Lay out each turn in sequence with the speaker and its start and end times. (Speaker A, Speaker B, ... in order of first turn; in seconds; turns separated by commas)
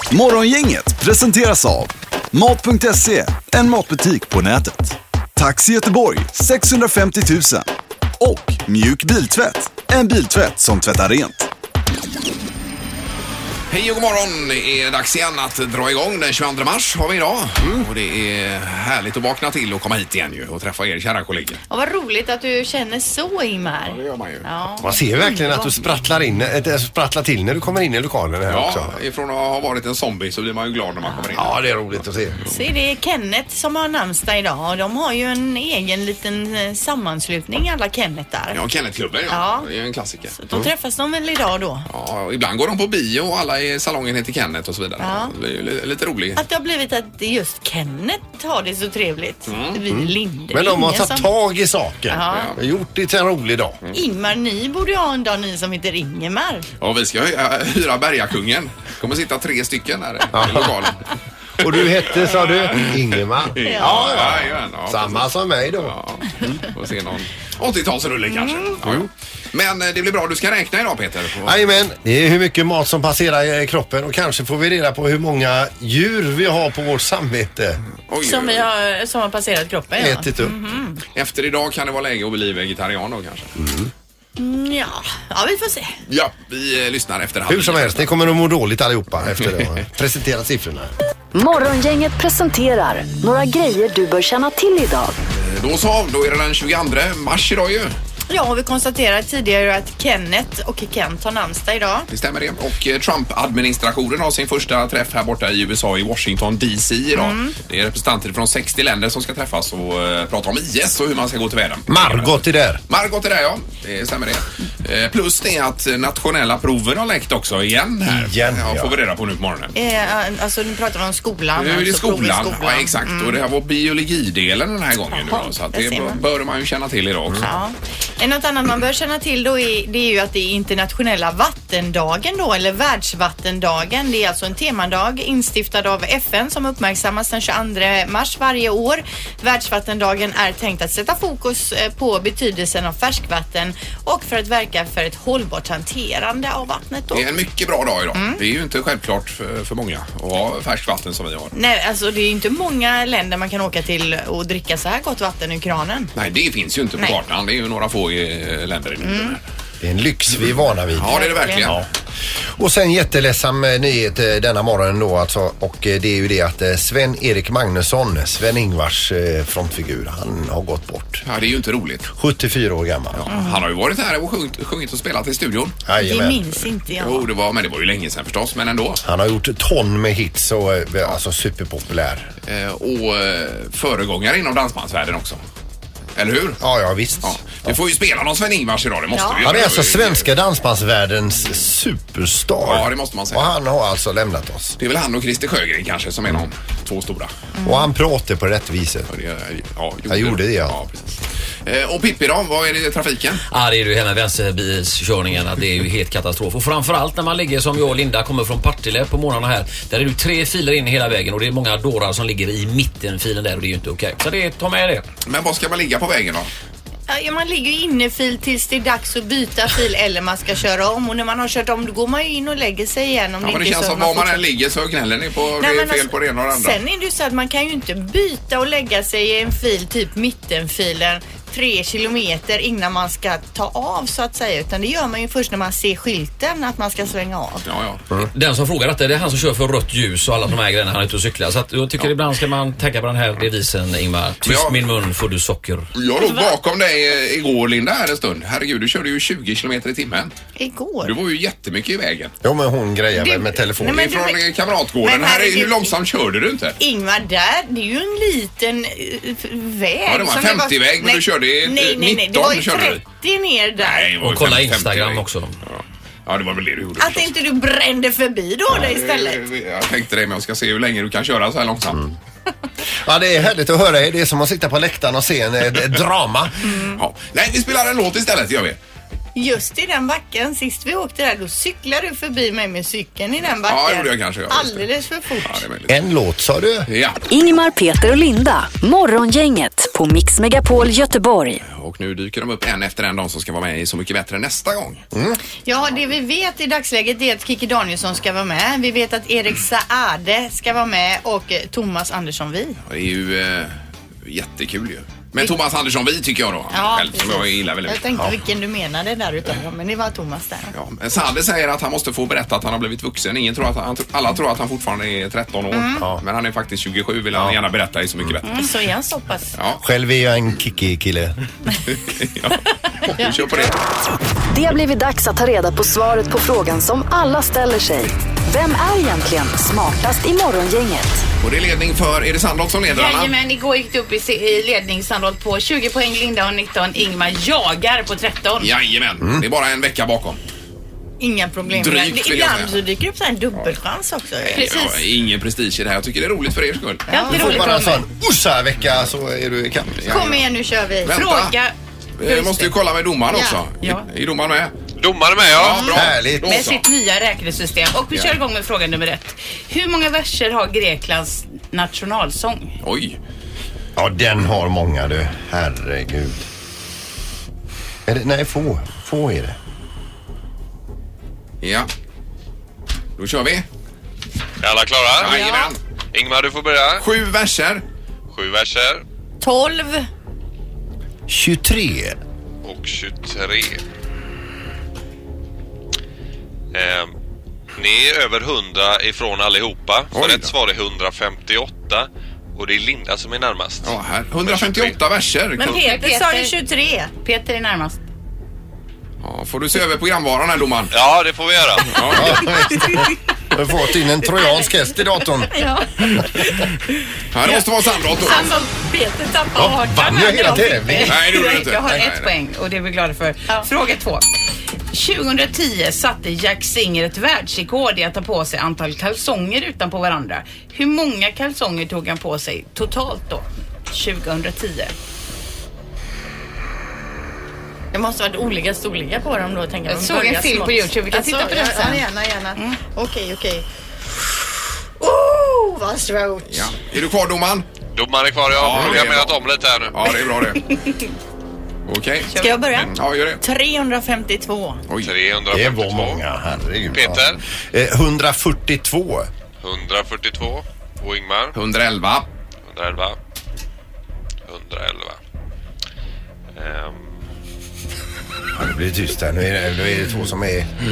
Speaker A: 0.1-7.7, Speaker A: 8.2-11.5, Speaker B: 13.7-21.6, Speaker C: 17.6-17.9, Speaker D: 21.7-26.0, Speaker B: 23.9-24.4, Speaker C: 24.8-29.0, Speaker B: 28.5-31.6, Speaker C: 31.3-32.4, Speaker D: 32.5-38.6, Speaker B: 38.5-40.3, Speaker D: 39.3-39.7, Speaker D: 40.4-41.9, Speaker B: 41.9-46.4, Speaker D: 45.0-45.3, Speaker D: 46.4-51.3, Speaker B: 49.5-49.8, Speaker C: 49.9-53.8, Speaker D: 52.1-52.5, Speaker B: 52.3-52.6, Speaker D: 53.9-56.7, Speaker B: 56.8-61.0, Speaker C: 60.3-60.9, Speaker C: 61.6-66.0, Speaker B: 61.6-63.0, Speaker B: 63.6-71.8, Speaker D: 63.6-64.2, Speaker D: 68.3-68.7, Speaker C: 71.4-77.8, Speaker B: 78.1-78.7, Speaker D: 78.2-81.0, Speaker C: 80.0-80.5, Speaker B: 81.2-83.5, Speaker C: 83.6-83.9, Speaker D: 84.4-86.0, Speaker B: 86.1-88.1, Speaker C: 87.5-90.9, Speaker E: 91.3-95.2, Speaker B: 95.4-97.9, Speaker D: 98.3-102.1, Speaker B: 102.1-119.7, Speaker D: 107.2-107.5, Speaker C: 111.9-112.8, Speaker C: 118.1-119.0, Speaker D: 119.8-123.4, Speaker B: 121.6-127.5, Speaker D: 125.1-126.2, Speaker D: 127.4-147.3, Speaker B: 147.1-151.5, Speaker D: 148.1-148.4, Speaker D: 151.5-156.1, Speaker B: 156.2-159.4, Speaker D: 159.0-159.3, Speaker C: 159.8-161.1, Speaker B: 161.0-161.8, Speaker D: 161.0-161.7, Speaker C: 162.6-171.2, Speaker B: 171.2-172.1, Speaker C: 172.1-173.3, Speaker B: 173.2-175.8, Speaker D: 173.3-173.6, Speaker C: 175.8-176.5, Speaker D: 176.0-177.3, Speaker B: 177.0-179.0, Speaker C: 179.0-182.3, Speaker B: 182.4-185.4, Speaker B: 186.2-186.6, Speaker C: 186.6-187.8, Speaker B: 187.2-190.3, Speaker D: 189.1-189.5, Speaker C: 189.4-194.8, Speaker B: 192.6-193.5, Speaker B: 194.8-197.3, Speaker D: 197.6-197.9, Speaker C: 197.6-199.1, Speaker B: 199.1-203.4, Speaker C: 200.1-200.8, Speaker F: 203.5-215.1, Speaker B: 215.3-216.5, Speaker D: 217.1-224.4, Speaker B: 223.4-226.8, Speaker D: 225.6-237.7, Speaker B: 237.7-238.0, Speaker F: 238.3-245.9, Speaker B: 244.4-244.8, Speaker B: 245.9-250.3, Speaker D: 246.2-246.5, Speaker D: 250.6-251.1, Speaker B: 251.0-252.3, Speaker C: 252.4-254.1, Speaker D: 253.2-254.4, Speaker B: 253.8-256.8, Speaker D: 255.0-255.9, Speaker D: 256.8-264.1, Speaker B: 260.1-263.0, Speaker B: 263.8-267.3, Speaker F: 264.2-265.6, Speaker D: 267.0-269.4, Speaker B: 268.7-272.0, Speaker C: 273.0-276.6, Speaker D: 276.6-277.0, Speaker B: 277.0-278.8, Speaker D: 279.4-285.6, Speaker B: 283.7-284.8, Speaker B: 285.4-286.0, Speaker C: 285.9-286.9, Speaker B: 286.9-287.2, Speaker E: 287.3-291.6, Speaker B: 291.6-295.0, Speaker C: 295.1-295.4, Speaker D: 295.6-302.8, Speaker B: 302.9-308.0, Speaker D: 306.7-310.7, Speaker B: 310.7-318.7, Speaker D: 315.7-316.0, Speaker C: 317.3-317.6, Speaker D: 318.5-319.5, Speaker B: 319.6-319.8, Speaker C: 319.8-321.3, Speaker B: 321.9-323.8, Speaker D: 323.2-323.7, Speaker E: 324.5-331.2, Speaker B: 331.4-333.3, Speaker G: 332.9-338.7, Speaker B: 338.6-340.4, Speaker D: 341.2-345.0, Speaker B: 341.7-342.8, Speaker B: 344.4-347.1, Speaker D: 347.1-347.7, Speaker G: 347.1-348.1, Speaker C: 347.3-350.2, Speaker B: 350.0-350.4, Speaker D: 350.1-351.2, Speaker B: 351.1-351.6, Speaker G: 351.1-351.7, Speaker B: 352.2-354.8, Speaker G: 352.3-352.7, Speaker D: 353.3-353.6, Speaker G: 353.8-354.1, Speaker H: 355.0-356.0, Speaker B: 355.5-356.8, Speaker C: 355.9-356.6, Speaker G: 356.4-362.8, Speaker B: 362.8-363.2, Speaker C: 364.0-366.4, Speaker C: 368.1-369.6, Speaker B: 371.6-371.9, Speaker B: 373.2-373.7, Speaker H: 374.6-377.0, Speaker B: 375.2-375.8, Speaker B: 377.0-377.8, Speaker H: 378.3-379.0, Speaker D: 379.4-380.1, Speaker C: 381.3-382.2, Speaker H: 382.6-383.8, Speaker H: 386.7-387.1, Speaker H: 387.8-395.0, Speaker B: 390.1-390.6, Speaker B: 393.8-395.8, Speaker G: 395.6-396.6, Speaker D: 395.6-397.1, Speaker G: 397.2-398.0, Speaker B: 399.2-400.9, Speaker H: 400.9-402.5, Speaker B: 401.9-402.6, Speaker C: 402.1-405.5, Speaker D: 405.5-406.2, Speaker G: 405.6-405.9, Speaker B: 407.3-408.5, Speaker D: 408.2-411.1, Speaker G: 408.3-414.3, Speaker C: 409.6-411.3, Speaker B: 411.0-412.3, Speaker G: 414.9-424.9, Speaker D: 427.9-433.6, Speaker G: 429.9-432.8, Speaker D: 435.0-436.7, Speaker B: 436.5-437.7, Speaker H: 437.9-440.1, Speaker B: 438.5-439.4, Speaker B: 439.9-440.6, Speaker B: 441.9-443.4, Speaker D: 442.4-444.8, Speaker B: 444.9-445.1, Speaker H: 445.0-446.2, Speaker C: 445.5-449.3, Speaker H: 446.9-447.4, Speaker H: 449.6-451.6, Speaker B: 451.6-452.3, Speaker H: 452.7-453.2, Speaker H: 454.5-455.2, Speaker H: 456.6-457.2, Speaker C: 458.5-460.7